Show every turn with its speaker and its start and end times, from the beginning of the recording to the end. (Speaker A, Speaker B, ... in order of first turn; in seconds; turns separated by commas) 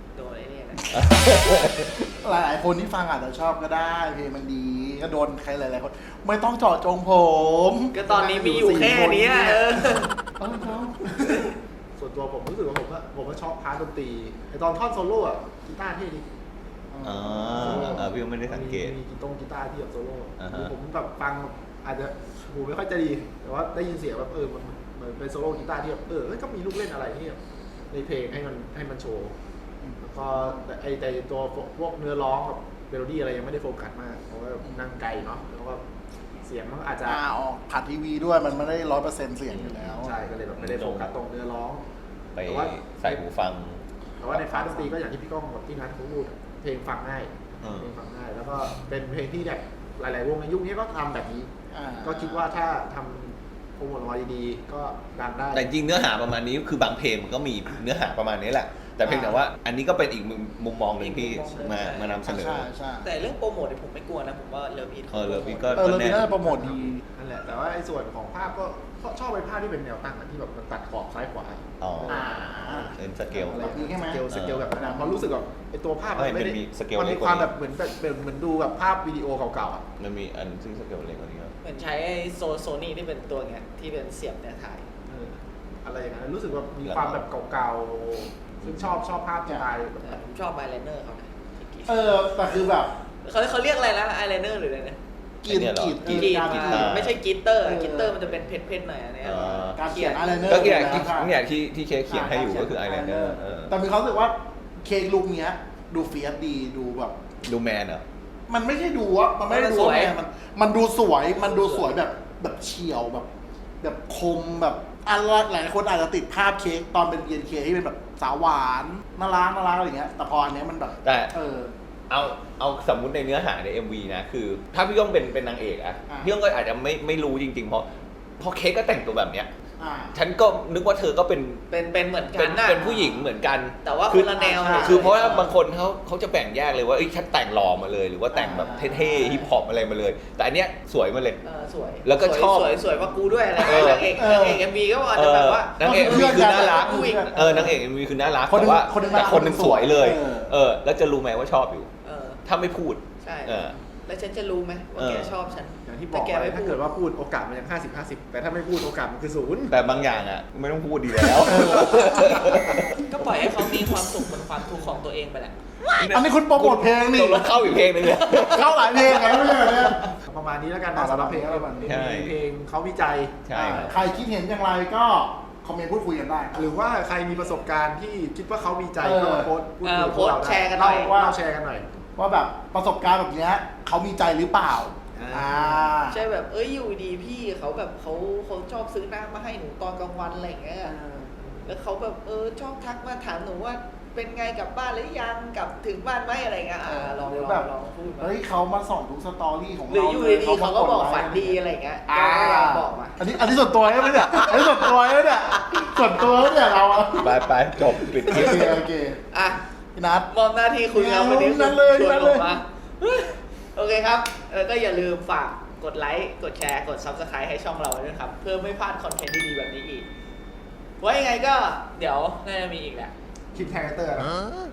Speaker A: 0.1-1.0, Speaker B: 0.9-1.9, Speaker C: 2.2-9.8, Speaker A: 7.9-10.2, Speaker C: 10.4-11.2, Speaker D: 11.1-16.2, Speaker C: 16.9-18.1, Speaker B: 17.0-19.0, Speaker D: 17.5-27.4, Speaker B: 20.4-20.8, Speaker D: 27.9-29.3, Speaker C: 29.8-30.6, Speaker D: 30.0-35.8, Speaker C: 34.6-34.9, Speaker D: 36.4-37.2, Speaker C: 37.0-40.1, Speaker B: 39.5-40.0, Speaker D: 40.0-41.8, Speaker B: 40.5-41.1, Speaker B: 42.4-43.8, Speaker D: 42.5-43.2, Speaker D: 44.2-51.5, Speaker B: 44.4-44.8, Speaker B: 47.6-47.9, Speaker C: 51.7-52.3, Speaker D: 52.0-55.7, Speaker B: 55.5-62.7, Speaker C: 59.0-59.4, Speaker A: 61.0-62.2, Speaker C: 62.2-63.1, Speaker A: 63.0-65.9, Speaker B: 65.1-66.3, Speaker C: 65.7-67.0, Speaker D: 66.2-79.8, Speaker B: 71.8-72.2, Speaker C: 72.1-75.4, Speaker B: 73.0-73.7, Speaker B: 74.3-74.7, Speaker B: 76.1-77.5, Speaker B: 80.0-81.5, Speaker A: 81.6-84.8, Speaker D: 85.1-90.2, Speaker B: 86.8-87.2, Speaker B: 88.6-89.0, Speaker A: 90.0-92.2, Speaker C: 91.9-92.9, Speaker A: 93.2-95.0, Speaker C: 95.4-97.0, Speaker B: 95.5-97.2, Speaker A: 96.0-101.0, Speaker C: 97.6-98.4, Speaker B: 99.2-99.8, Speaker C: 99.6-101.4, Speaker B: 100.5-103.8, Speaker C: 102.1-107.2, Speaker B: 107.5-108.0, Speaker C: 108.5-113.3, Speaker A: 109.5-110.2, Speaker A: 111.4-111.9, Speaker C: 113.8-121.7, Speaker B: 121.0-121.3, Speaker B: 122.1-127.9, Speaker C: 126.1-126.3, Speaker B: 128.4-129.5, Speaker C: 129.8-130.2, Speaker B: 130.1-131.6, Speaker A: 131.7-133.3, Speaker B: 132.3-141.4, Speaker A: 133.8-135.5, Speaker D: 134.4-135.5, Speaker C: 138.3-139.5, Speaker A: 141.4-147.6, Speaker B: 142.0-142.8, Speaker B: 143.6-144.6, Speaker C: 144.1-144.6, Speaker B: 145.1-151.9, Speaker C: 145.8-147.8, Speaker C: 148.5-150.6, Speaker A: 149.0-149.7, Speaker A: 152.0-152.4, Speaker B: 152.4-153.8, Speaker A: 153.2-156.8, Speaker B: 155.0-155.4, Speaker D: 155.8-159.8, Speaker B: 159.7-163.0, Speaker D: 161.3-162.2, Speaker C: 161.4-162.4, Speaker A: 162.9-165.6, Speaker B: 165.9-168.9, Speaker C: 166.1-167.6, Speaker C: 168.3-170.0, Speaker A: 169.0-170.1, Speaker D: 170.2-174.0, Speaker C: 170.9-171.9, Speaker B: 171.8-172.4, Speaker B: 173.4-174.0, Speaker C: 173.6-176.6, Speaker D: 176.6-181.9, Speaker C: 179.0-179.5, Speaker A: 179.8-181.3, Speaker C: 180.9-181.3, Speaker C: 182.2-186.2, Speaker D: 185.2-185.9, Speaker A: 186.1-191.0, Speaker C: 190.8-191.3, Speaker A: 191.7-198.3, Speaker C: 196.8-207.4, Speaker A: 199.9-203.2, Speaker A: 204.3-204.9, Speaker B: 207.2-208.8, Speaker C: 208.2-209.2, Speaker A: 209.3-209.6, Speaker C: 209.9-210.3, Speaker A: 210.3-220.1, Speaker C: 210.9-212.5, Speaker A: 221.0-223.1, Speaker D: 223.5-224.4